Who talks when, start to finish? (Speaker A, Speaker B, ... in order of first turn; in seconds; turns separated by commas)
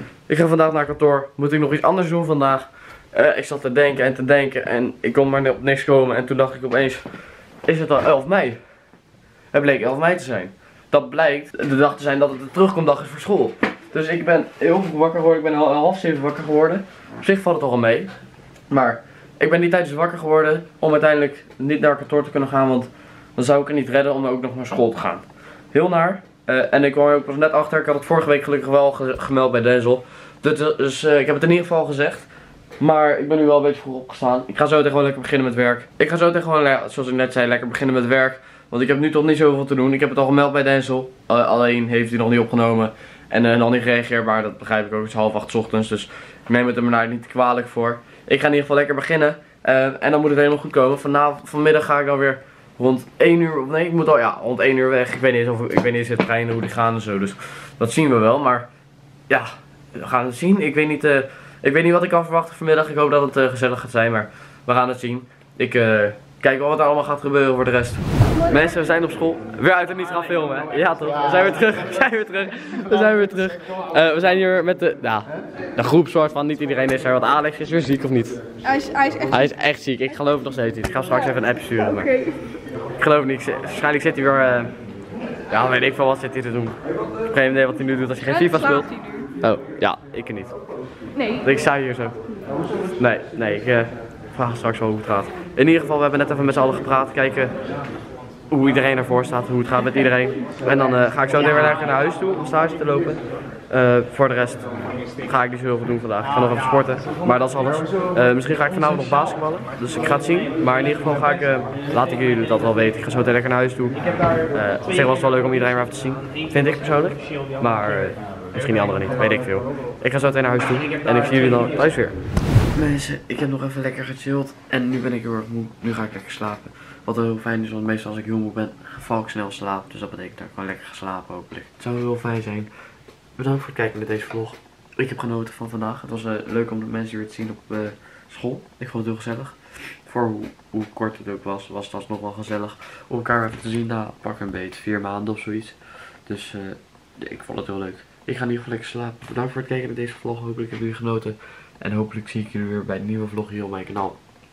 Speaker A: 0.3-7.1, Speaker A: 7.7-8.6, Speaker A: 9.5-18.1, Speaker A: 18.7-32.3, Speaker A: 32.8-58.7, Speaker A: 59.3-78.4, Speaker B: 78.6-79.4, Speaker A: 79.3-82.2, Speaker B: 81.8-82.4, Speaker A: 83.0-84.8, Speaker A: 85.5-90.6, Speaker B: 88.5-89.3, Speaker B: 91.2-91.4, Speaker A: 91.4-92.2, Speaker A: 93.0-97.5, Speaker A: 98.5-104.7, Speaker A: 105.2-114.0, Speaker A: 114.5-122.2, Speaker A: 122.7-132.7, Speaker A: 133.4-154.2